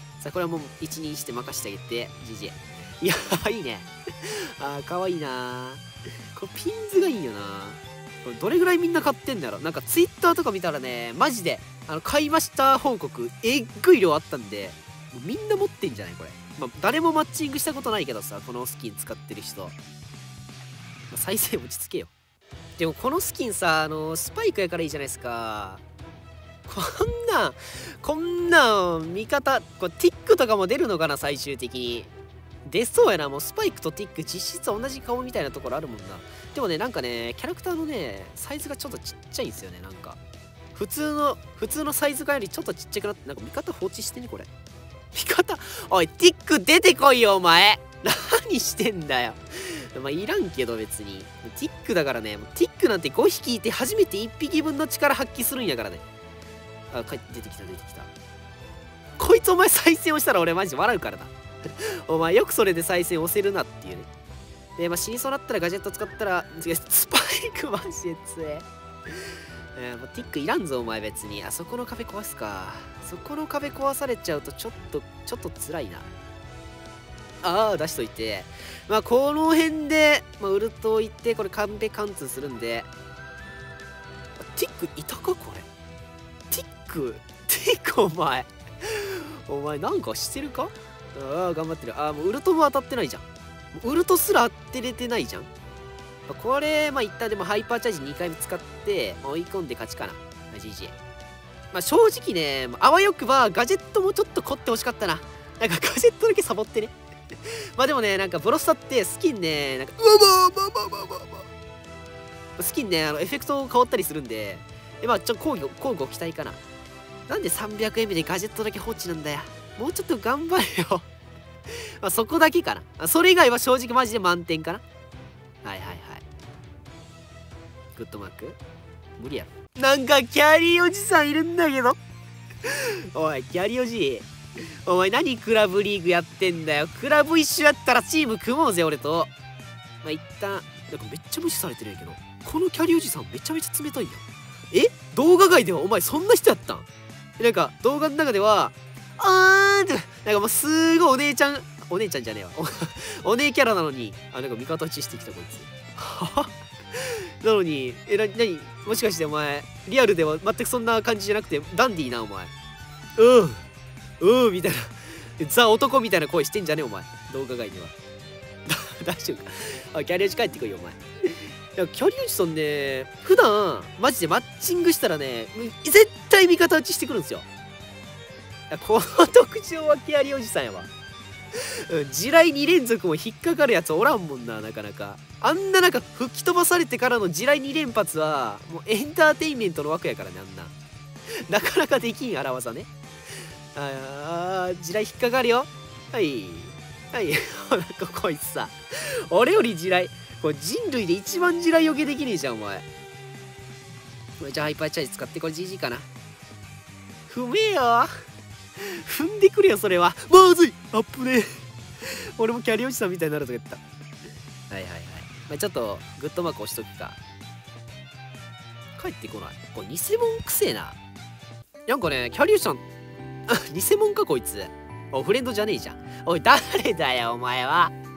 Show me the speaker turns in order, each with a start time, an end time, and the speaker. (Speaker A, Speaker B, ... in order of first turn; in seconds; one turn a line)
Speaker A: 0.2-19.8
Speaker A: 21.1-22.1
Speaker A: 22.8-25.8
Speaker A: 26.7-32.1
Speaker A: 32.6-40.2
Speaker A: 40.7-44.5
Speaker A: 45.1-56.0
Speaker A: 56.9-58.1
Speaker A: 59.2-64.1
Speaker A: 64.8-68.7
Speaker A: 69.8-76.1
Speaker A: 77.4-82.9
Speaker A: 84.4-85.7
Speaker A: 86.5-95.5
Speaker A: 96.3-101.0
Speaker A: 101.7-106.9
Speaker A: 107.8-111.5
Speaker A: 112.6-116.6
Speaker A: 117.3-121.0
Speaker A: 122.0-124.8
Speaker A: 125.6-126.2
Speaker A: 128.0-128.6
Speaker A: 129.2-132.0
Speaker A: 132.7-134.3
Speaker A: 134.8-139.3
Speaker A: 140.0-146.9
Speaker A: 147.4-162.5
Speaker A: 163.2-163.6
Speaker A: 164.2-167.9
Speaker A: 168.7-177.4
Speaker A: 178.7-180.9
Speaker A: 181.6-190.7
Speaker A: 191.5-192.9
Speaker A: 193.8-198.8
Speaker A: 199.3-202.9
Speaker A: 204.4-206.1
Speaker A: 207.3-208.1
Speaker A: 208.8-213.8
Speaker A: 214.7-217.2
Speaker A: 219.0-221.0
Speaker A: 221.9-222.8
Speaker A: 223.5-227.9